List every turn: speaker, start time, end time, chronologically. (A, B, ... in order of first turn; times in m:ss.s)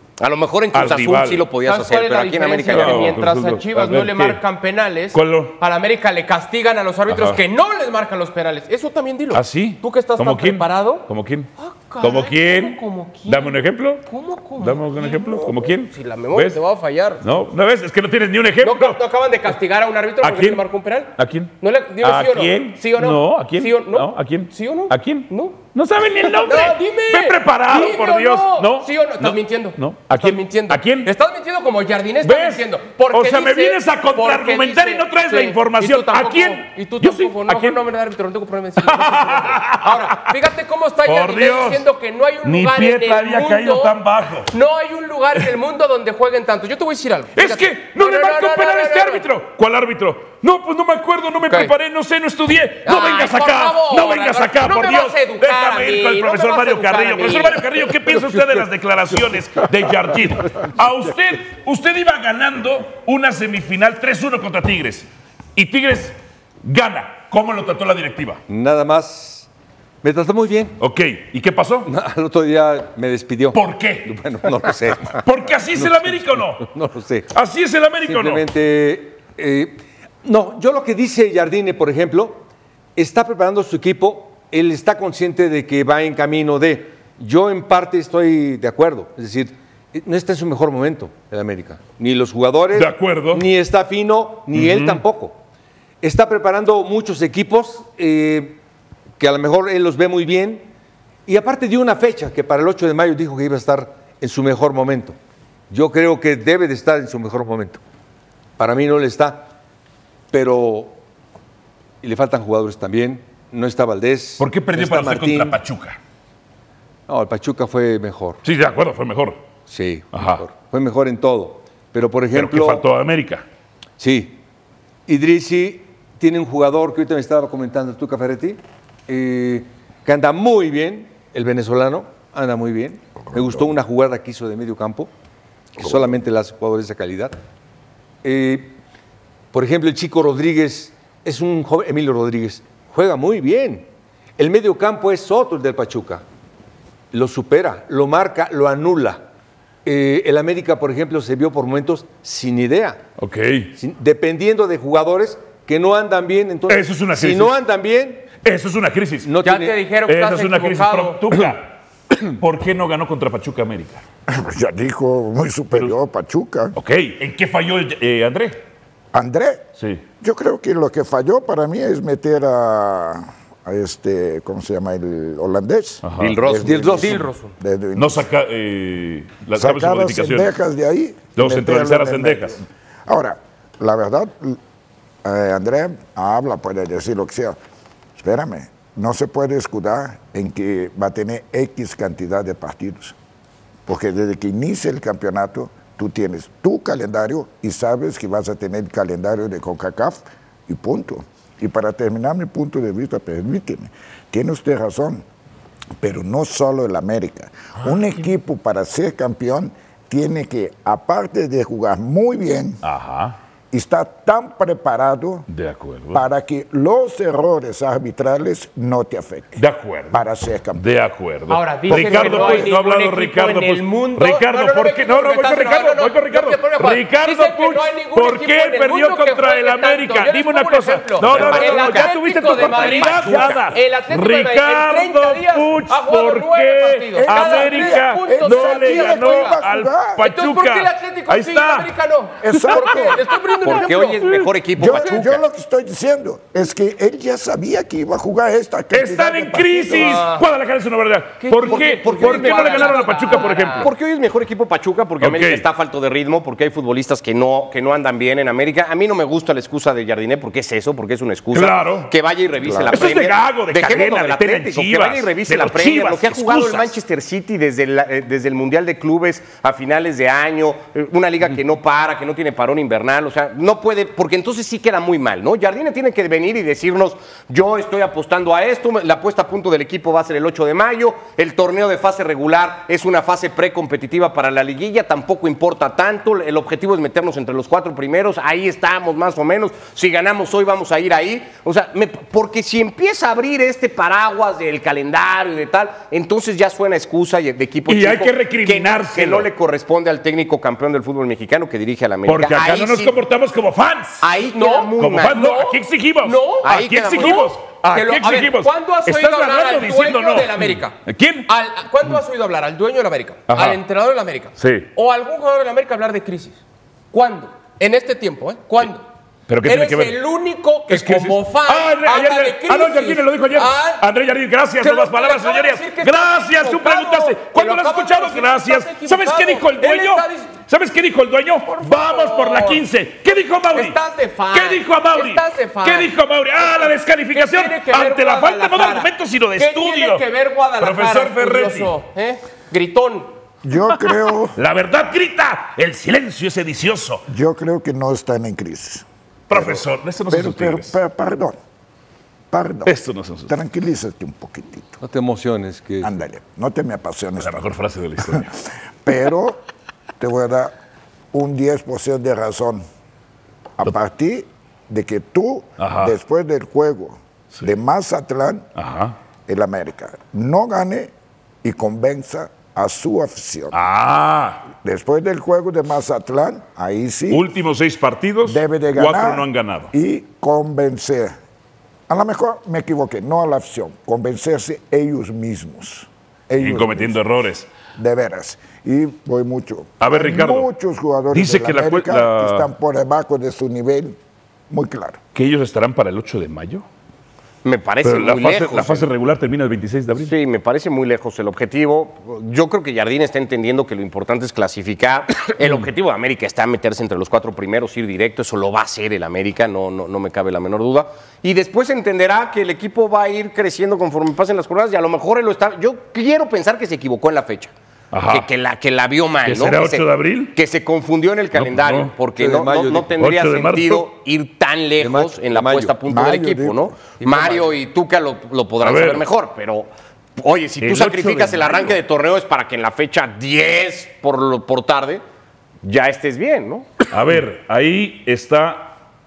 0:00.2-0:03.1 A
0:00.7-0:01.5 B
0:01.6-0:11.1 C
0:02.7-0:04.4 B
0:05.1-0:05.6 B
0:07.1-0:07.4 B
0:09.3-0:11.5 B
0:11.6-0:17.2 C
0:12.0-0:14.0 B
0:14.6-0:16.6 B
0:17.2-0:19.0 B
0:18.6-0:25.6 C
0:20.2-0:31.1 B
0:26.4-0:43.9 C
0:32.2-0:37.8 B
0:38.8-0:40.4 B
0:41.0-0:41.8 B
0:42.4-0:44.5 B
0:44.4-0:49.2 C
0:47.4-1:08.4 B
0:52.8-0:57.9 C
1:08.5-1:09.5 D
1:10.0-1:10.8 D
1:10.8-1:11.9 B
1:11.8-1:17.3 D
1:13.5-1:14.1 B
1:15.1-1:16.7 B
1:17.3-1:18.4 B
1:18.0-1:22.4 D
1:23.0-1:35.4 D
1:32.7-1:33.4 B
1:34.5-1:35.0 B
1:36.0-1:38.6 D
1:39.2-1:40.7 D
1:41.3-1:45.2 D
1:45.7-1:47.8 D
1:48.6-1:49.5 D
1:50.3-1:51.0 D
1:52.0-1:55.6 D
1:54.4-1:56.0 B
1:57.1-1:58.4 D
1:58.4-1:59.4 B
1:59.7-2:02.8 D
2:00.1-2:00.4 B
2:02.3-2:03.4 B
2:04.0-2:04.4 D
2:05.1-2:15.1 D
2:15.8-2:17.3 D
2:18.2-2:18.8 D
2:19.5-2:23.9 D
2:24.4-2:26.2 D
2:27.1-2:29.2 D
2:29.8-2:33.0 D
2:33.2-2:33.7 B
2:33.8-2:38.3 D
2:36.7-2:37.6 B
2:38.4-2:39.3 B
2:39.2-2:39.8 D
2:39.4-2:41.2 C
2:40.0-2:44.0 B
2:44.3-2:46.7 E
2:46.7-2:48.6 B
2:49.1-2:49.7 E
2:50.2-2:58.3 E
2:56.0-2:56.4 B
2:56.2-2:57.3 A
2:56.4-2:57.3 D
2:57.2-2:57.5 C
2:58.0-3:00.5 B
2:59.5-3:04.6 E
3:01.4-3:02.6 B
3:05.2-3:07.6 E
3:08.2-3:13.1 E
3:13.9-3:25.2 E
3:26.0-3:32.8 E
3:32.8-3:33.4 B
3:33.7-3:35.5 E
3:35.5-3:36.2 B
3:36.1-3:40.8 E
3:39.6-4:01.9 B
3:41.5-3:59.6 C
3:41.9-3:42.7 E
3:51.2-3:53.6 A
3:57.2-4:00.2 E
4:00.2-4:04.3 C
4:02.4-4:03.2 E
4:02.5-4:04.5 B
4:03.6-4:05.4 A
4:04.8-4:10.3 E
4:08.9-4:13.9 B
4:09.9-4:10.4 C
4:11.4-4:13.9 C
4:11.6-5:03.1 A
4:15.2-4:15.6 B
4:21.5-4:22.1 B
4:22.6-4:26.9 B
4:57.9-4:59.5 B
5:02.2-5:04.3 B
5:04.2-5:05.4 A
5:04.5-5:16.6 C
5:05.0-5:11.5 B
5:06.6-5:07.5 A
5:13.5-5:13.8 B
5:14.6-5:14.9 B
5:17.1-5:19.0 C
5:19.5-5:20.2 B
5:19.6-5:24.0 C
5:20.9-5:34.0 B
5:24.8-5:30.6 C
5:31.6-5:32.8 C
5:33.7-5:36.1 C
5:34.5-5:40.2 B
5:37.3-5:43.3 C
5:40.8-5:41.9 B
5:43.6-5:44.6 E
5:44.6-5:47.2 B
5:47.3-5:51.6 E
5:49.5-5:51.0 B
5:52.5-5:52.9 E
5:52.8-5:53.6 B
5:53.5-5:55.0 E
5:55.0-5:56.1 D
5:56.0-5:57.7 E
5:57.4-5:58.5 B
5:59.0-5:59.6 E
6:00.2-6:00.7 E
6:01.3-6:02.8 E
6:03.8-6:08.7 E
6:05.8-6:06.1 B
6:08.8-6:09.2 B
6:09.5-6:11.1 E
6:11.6-6:13.8 E
6:13.7-6:14.7 B
6:14.8-6:17.4 E
6:17.3-6:19.9 B
6:18.4-6:21.4 E
6:22.1-6:27.2 E
6:26.6-6:27.7 B
6:27.9-6:34.2 E
6:30.0-6:30.7 B
6:31.3-6:32.7 B
6:34.7-6:35.2 E
6:35.3-6:36.8 B
6:37.6-6:39.1 A
6:38.0-6:40.3 B
6:40.2-6:57.7 A
6:58.1-6:58.5 B
6:58.3-7:15.2 A
6:59.4-7:00.6 B
7:01.5-7:02.1 B
7:02.3-7:03.1 D
7:03.2-7:04.1 B
7:05.0-7:05.9 D
7:06.1-7:07.0 E
7:08.8-7:09.2 B
7:10.8-7:12.0 B
7:15.8-7:17.0 A
7:17.1-7:19.0 B